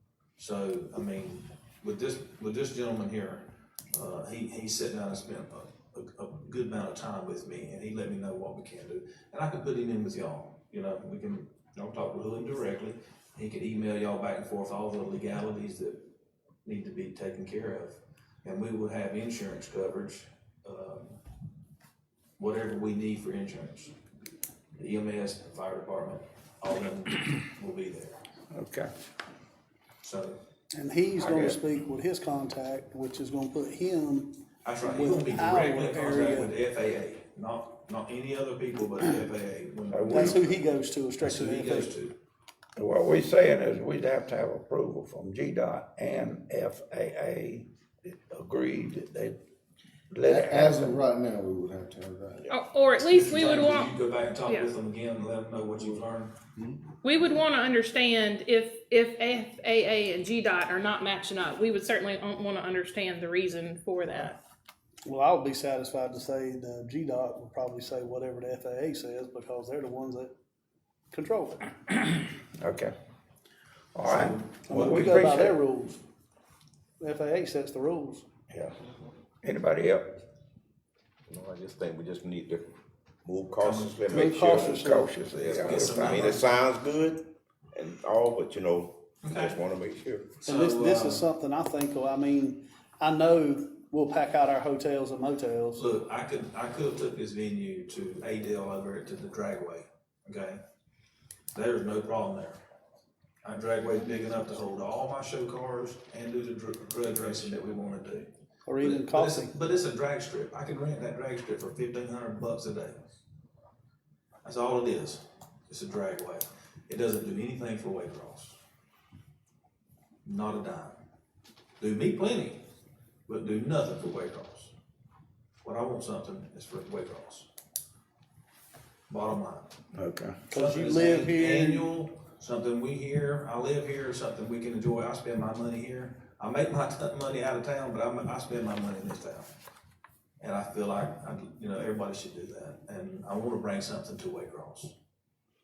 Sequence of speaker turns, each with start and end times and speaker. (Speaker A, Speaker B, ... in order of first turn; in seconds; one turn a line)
Speaker A: 0.4-16.1
Speaker A: 16.6-21.2
Speaker A: 22.4-23.9
Speaker A: 24.8-28.2
Speaker B: 28.5-28.9
Speaker A: 30.0-30.4
Speaker C: 30.7-36.5
Speaker B: 31.2-31.6
Speaker A: 34.6-40.6
Speaker B: 39.9-40.4
Speaker C: 40.1-41.9
Speaker A: 41.2-42.1
Speaker B: 42.8-49.4
Speaker B: 50.1-51.0
Speaker D: 50.2-52.5
Speaker E: 52.5-53.9
Speaker A: 53.0-56.3
Speaker E: 57.0-64.4
Speaker C: 65.0-70.3
Speaker C: 71.1-71.7
Speaker B: 72.0-72.9
Speaker B: 73.9-75.6
Speaker A: 74.0-75.3
Speaker C: 74.7-76.0
Speaker C: 77.0-78.2
Speaker B: 79.4-80.2
Speaker F: 81.3-82.7
Speaker F: 83.2-90.4
Speaker A: 83.6-84.6
Speaker C: 84.1-85.2
Speaker B: 84.5-86.4
Speaker A: 85.4-86.6
Speaker A: 89.2-89.6
Speaker C: 90.4-95.8
Speaker A: 90.4-91.3
Speaker A: 95.8-100.6
Speaker A: 101.5-102.6
Speaker A: 103.4-113.0
Speaker C: 108.7-109.5
Speaker A: 114.4-118.6
Speaker A: 120.2-121.0
Speaker A: 121.8-122.6
Speaker A: 123.3-124.7
Speaker A: 125.6-127.5
Speaker A: 129.1-129.7
Speaker B: 129.9-130.4
Speaker C: 130.5-131.9
Speaker A: 130.5-139.5
Speaker A: 140.4-144.9